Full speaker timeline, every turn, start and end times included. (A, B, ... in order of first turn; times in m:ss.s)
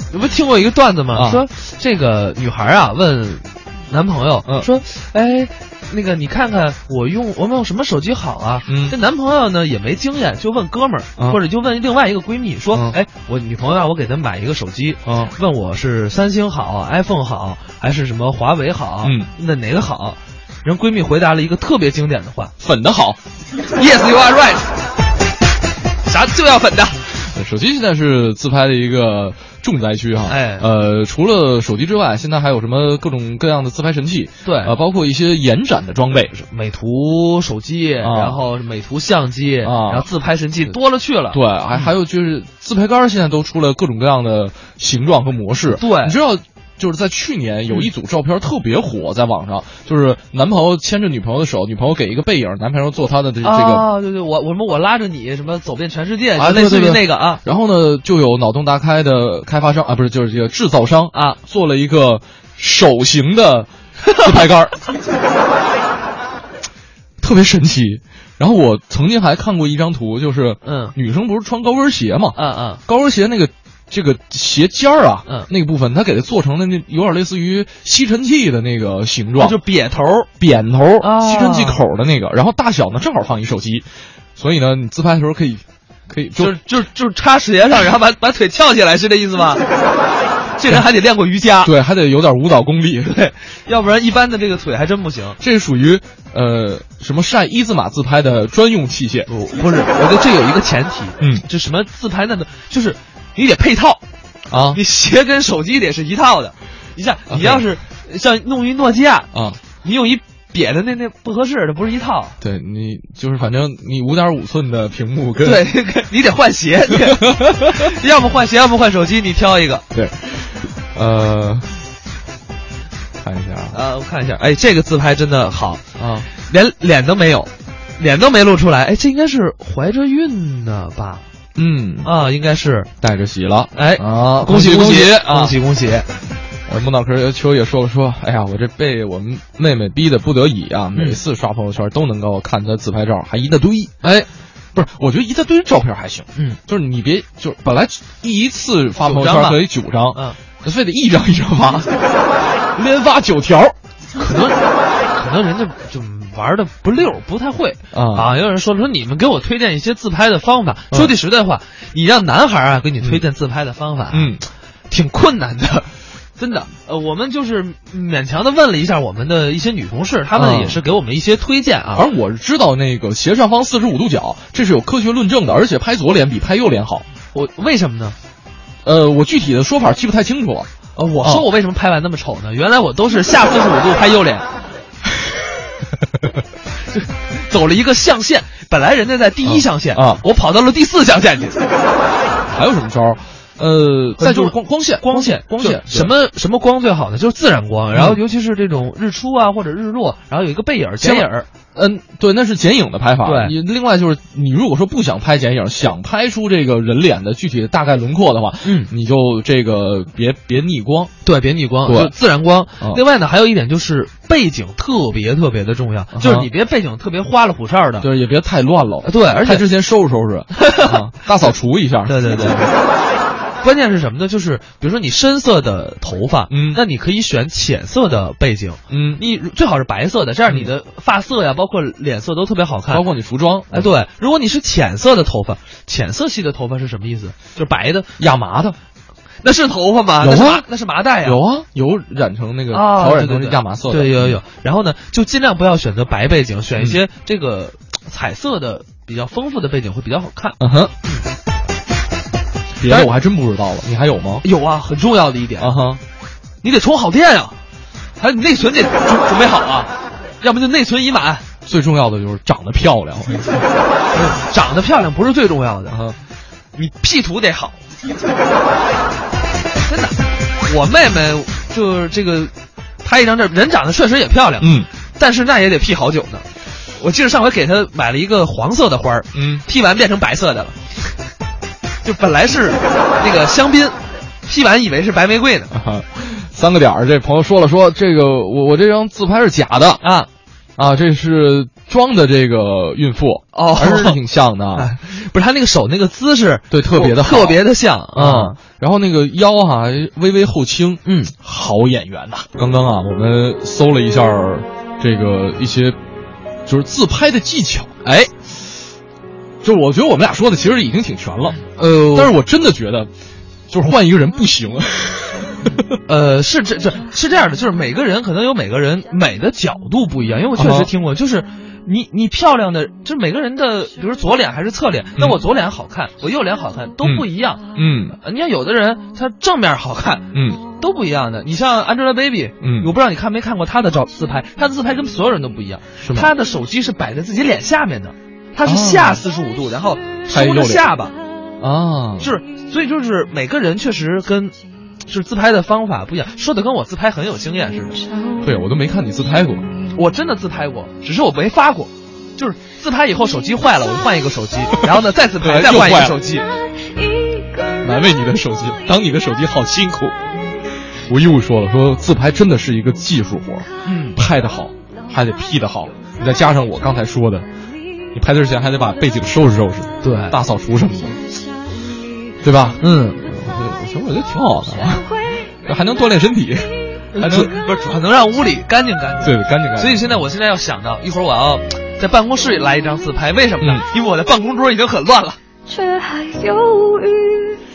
0:00.1-0:22.5 A
0:01.1-0:01.4 B
0:08.7-0:09.0 B
0:12.7-0:13.0 B
0:15.0-0:15.3 B
0:19.0-0:19.3 B
0:22.6-0:23.2 B
0:23.7-0:24.6 A
0:26.0-0:27.0 A
0:27.2-0:36.3 B
0:30.3-0:30.7 A
0:34.4-0:34.7 A
0:36.4-0:41.9 A
0:38.0-0:38.4 B
0:39.6-0:40.1 B
0:41.3-0:53.9 B
0:45.7-0:46.2 A
0:53.4-0:57.4 A
0:56.4-1:04.8 B
1:01.1-1:01.4 A
1:07.2-1:19.6 B
1:10.6-1:10.9 A
1:12.4-1:12.8 A
1:19.4-1:20.3 A
1:20.4-1:26.6 B
1:21.0-1:21.8 A
1:26.4-1:29.6 A
1:30.6-1:31.7 A
1:31.6-1:33.3 B
1:33.1-1:35.4 A
1:35.4-1:39.3 B
1:39.3-1:44.0 A
1:44.5-1:44.8 B
1:44.7-1:52.4 A
1:47.3-1:47.6 B
1:49.3-1:49.6 B
1:52.4-1:55.7 B
1:55.4-1:59.8 A
1:56.9-1:57.9 B
1:59.9-2:01.7 B
2:03.2-2:03.8 B
2:03.7-2:11.2 A
2:06.0-2:06.3 B
2:11.6-2:12.1 B
2:12.0-2:12.9 A
2:13.0-2:15.6 B
2:13.7-2:16.1 A
2:16.7-2:31.9 B
2:20.9-2:21.2 A
2:29.0-2:30.4 A
2:32.7-2:33.7 B
2:34.2-2:44.3 A
2:37.9-2:38.3 B
2:44.1-2:44.4 B
2:44.9-2:52.1 A
2:50.3-2:50.8 B
2:51.9-2:57.0 B
2:57.3-2:58.2 A
2:58.8-3:00.7 B
3:01.0-3:04.5 A
3:01.2-3:01.4 B
3:06.9-3:11.6 A
3:09.4-3:10.2 B
3:12.5-3:16.1 B
3:14.2-3:21.5 A
3:17.9-3:18.2 B
3:21.0-3:31.1 B
3:23.2-3:23.5 A
3:28.6-3:28.9 A
3:31.2-3:38.1 A
3:31.8-3:32.1 B
3:36.1-3:36.5 B
3:38.0-3:42.7 B
3:39.0-3:39.7 A
3:40.6-3:41.5 A
3:42.1-3:42.7 A
3:43.6-3:53.0 A
3:46.5-3:46.8 B
3:48.9-3:49.2 B
3:52.9-3:53.9 B
3:53.7-3:58.2 A
3:58.2-3:58.8 B
3:59.4-4:01.4 A
4:00.2-4:00.6 B
4:01.2-4:04.4 B
4:02.7-4:10.6 A
4:10.6-4:10.9 B
4:12.8-4:14.4 B
4:12.8-4:13.1 A
4:14.4-4:15.8 A
4:15.6-4:16.0 B
4:16.6-4:17.6 A
4:18.2-4:21.4 A
4:21.6-4:23.6 B
4:24.1-4:26.0 A
4:25.9-4:26.2 B
4:26.8-4:27.8 A
4:29.9-4:32.5 A
4:33.0-4:36.4 A
4:34.6-4:34.9 B
4:37.0-4:40.8 A
4:39.3-4:39.6 B
4:42.0-4:45.7 A
4:45.7-4:50.0 B
4:50.0-4:50.3 A
4:50.8-4:54.9 B
4:53.5-4:54.2 A
4:54.7-4:58.6 A
4:56.7-4:57.6 B
4:58.1-5:06.0 B
5:01.0-5:01.3 A
5:06.6-5:08.3 B
5:09.6-5:13.1 B
5:11.8-5:12.3 A
5:13.7-5:16.0 B
5:16.1-5:27.6 A
5:20.6-5:20.9 B
5:27.0-5:28.2 B
5:28.2-5:41.1 A
5:30.3-5:30.6 B
5:32.6-5:32.9 B
5:36.0-5:36.3 B
5:38.6-5:39.2 B
5:40.3-5:40.9 B
5:41.6-5:42.3 B
5:42.2-5:48.1 A
5:48.3-5:49.8 B
5:49.9-5:56.5 A
5:54.7-5:56.2 B
5:57.8-6:07.5 B
6:03.8-6:04.2 A
6:08.1-6:11.2 B
6:10.0-6:10.4 A
6:12.4-6:17.6 B
6:12.8-6:13.2 A
6:17.1-6:25.4 A
6:19.2-6:20.2 B